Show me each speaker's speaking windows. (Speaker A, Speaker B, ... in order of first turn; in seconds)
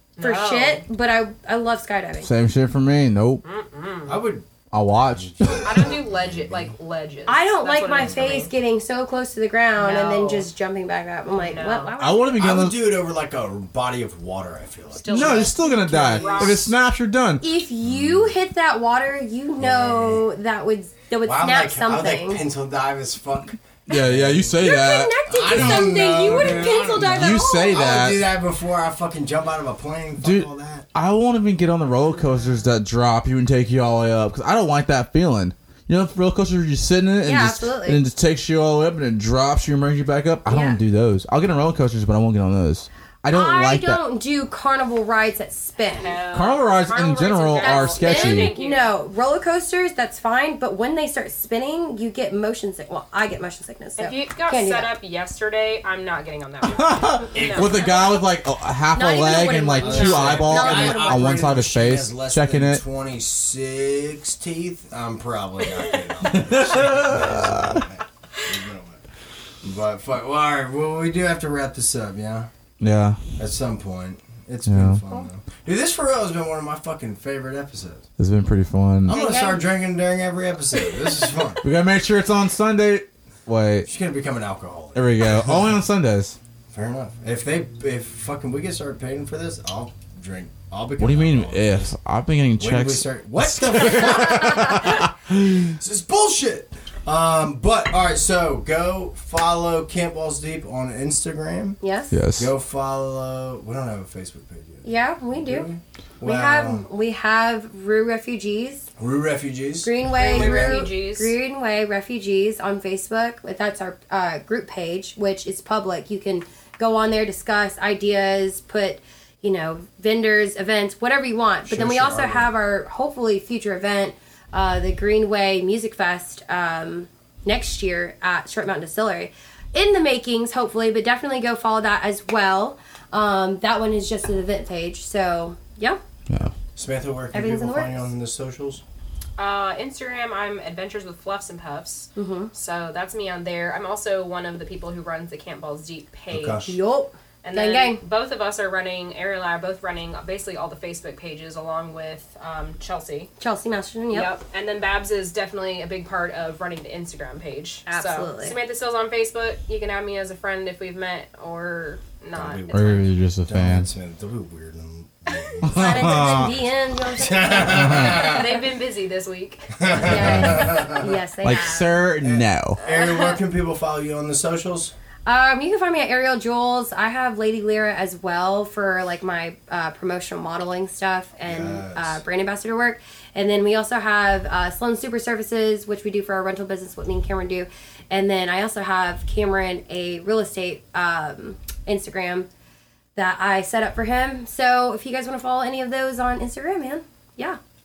Speaker A: 0.2-0.8, 3.4-4.2, 5.6-8.5, 9.8-10.5, 11.3-11.9, 15.0-16.7, 46.0-48.9, 54.0-57.8, 65.8-66.2, 110.2-111.3, 139.4-146.8, 147.4-153.3, 154.1-163.1, 168.0-169.8, 172.9-173.3
Speaker B: 0.2-2.3, 7.3-12.4, 15.2-16.7, 17.4-22.4, 24.6-28.0, 37.2-38.0, 40.5-40.8, 43.3-46.2, 47.6-55.0, 59.0-61.4, 79.1-79.6, 101.8-102.2, 104.8-105.7, 106.2-108.9, 109.8-136.0, 137.3-137.9, 142.2-142.5, 146.7-148.0, 153.4-154.3, 157.9-158.6, 165.6-168.4, 169.9-172.0, 175.3-192.5, 193.2-197.6
Speaker C: 2.2-3.4, 4.7-5.9, 12.0-13.0, 15.1-17.4, 23.9-28.2, 30.2-44.0, 46.3-48.5, 56.7-62.8, 66.3-67.8, 72.8-73.2, 74.7-75.0, 78.2-79.2, 81.6-83.9, 85.0-86.4, 91.0-95.7, 102.1-102.5, 162.7-163.9, 165.6-166.5, 167.6-168.3, 170.0-170.8, 171.4-172.8
Speaker D: 4.1-6.8, 8.0-8.3, 12.4-15.5, 17.8-18.4, 19.6-20.3, 21.2-30.9, 57.3-57.9, 59.8-69.0, 69.6-72.5, 73.4-78.1, 79.0-81.6, 83.8-85.7, 86.7-92.0, 92.6-101.8, 102.4-106.8, 109.0-110.9, 121.7-122.5, 136.8-138.8, 146.3-146.7, 162.3-168.5, 169.8-171.2, 172.2-174.9, 181.4-182.2